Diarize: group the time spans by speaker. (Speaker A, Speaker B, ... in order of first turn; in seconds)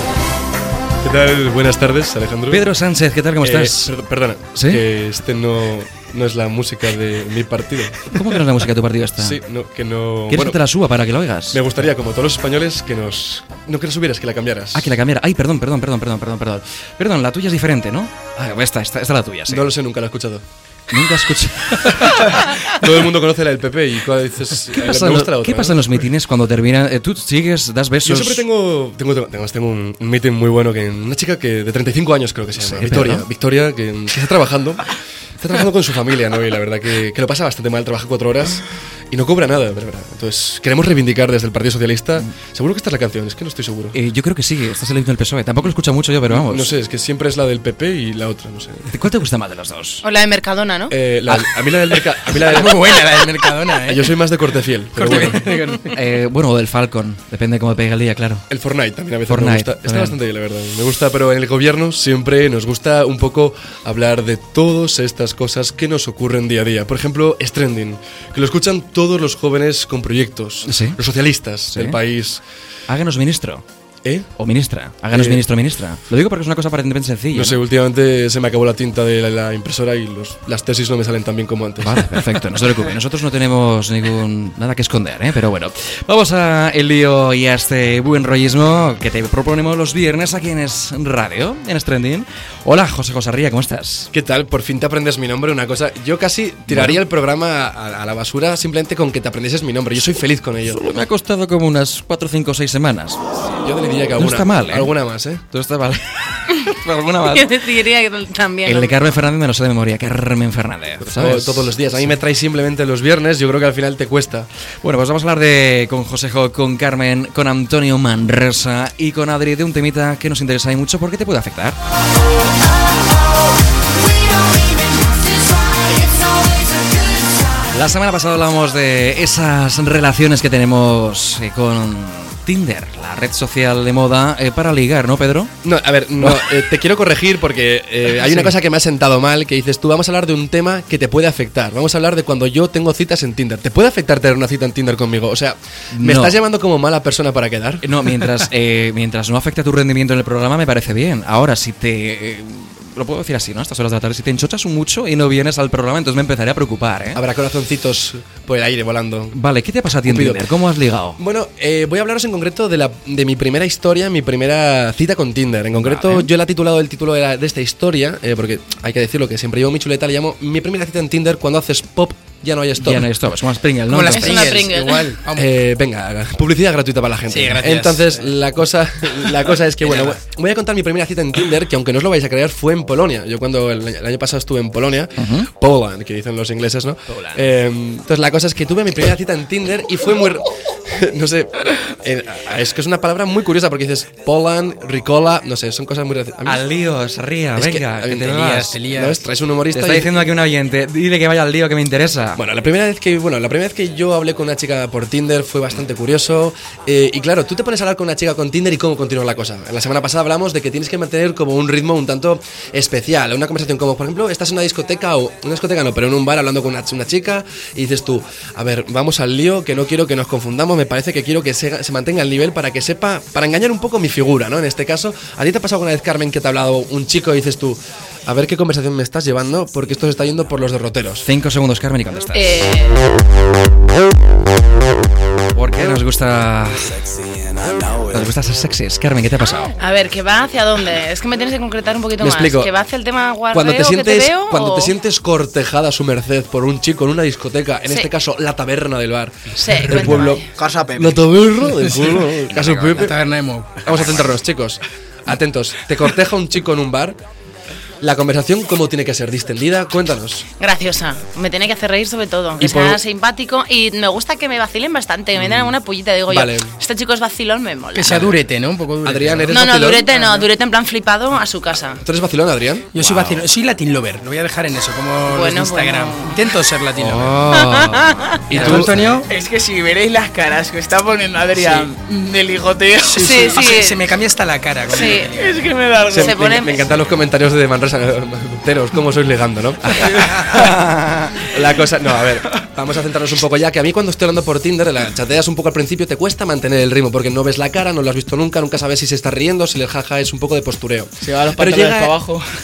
Speaker A: 1.0-2.7, 3.4-8.1, 9.2-10.6, 11.5-14.9, 19.5-20.4, 22.7-25.8, 28.0-44.0, 46.3-48.9, 50.9-53.0, 53.9-55.5, 58.5-72.4, 74.0-74.3, 75.1-75.4, 77.3-82.0, 94.1-100.8, 103.6-105.4, 111.0-114.5, 135.6-147.8, 157.2-159.4, 160.0-160.5, 161.2-173.1, 175.3-196.6, 197.6-200.1, 202.4-231.3, 242.2-242.7, 243.5-253.2, 253.8-257.2, 258.0-260.5, 262.6-263.0, 266.3-266.7, 269.0-270.1, 272.0-272.9, 278.5-279.1, 286.1-290.8, 291.3-302.2
Speaker B: 2.5-3.9, 4.6-4.8, 8.1-9.4, 10.3-11.8, 14.7-19.7, 20.9-22.8, 24.7-28.4, 32.6-33.3, 43.9-46.7, 48.9-50.0, 55.1-58.4, 59.3-60.1, 70.7-71.0, 71.7-72.0, 72.9-73.6, 74.4-77.6, 81.8-94.1, 96.7-97.0, 100.7-103.2, 104.2-107.7, 108.7-112.1, 114.8-121.8, 127.7-135.5, 136.2-136.5, 138.2-138.5, 145.9-146.4, 147.8-157.2, 159.3-161.2, 165.7-166.3, 172.8-174.6, 185.2-185.5, 187.1-187.6, 196.4-198.8, 199.7-202.4, 231.2-232.6, 235.5-237.1, 238.0-239.8, 252.4-253.2, 254.0-254.2, 272.9-273.4, 277.0-279.2, 281.6-281.9, 289.8-291.5
Speaker C: 50.0-51.0, 107.3-109.2, 174.1-175.2, 232.3-233.2, 239.8-244.9, 247.8-248.1, 249.6-250.5, 260.6-268.3, 269.5-272.0, 275.3-276.5, 277.5-278.4, 283.1-284.1, 284.9-285.3, 286.1-286.9
Speaker D: 52.5-53.9, 55.1-55.8, 173.9-175.4, 177.3-178.0, 198.5-199.1, 253.1-253.7, 268.0-269.6, 273.0-277.4, 278.6-279.2, 283.1-285.7
Speaker E: 250.5-251.2, 279.2-283.4, 285.2-286.4, 301.2-302.5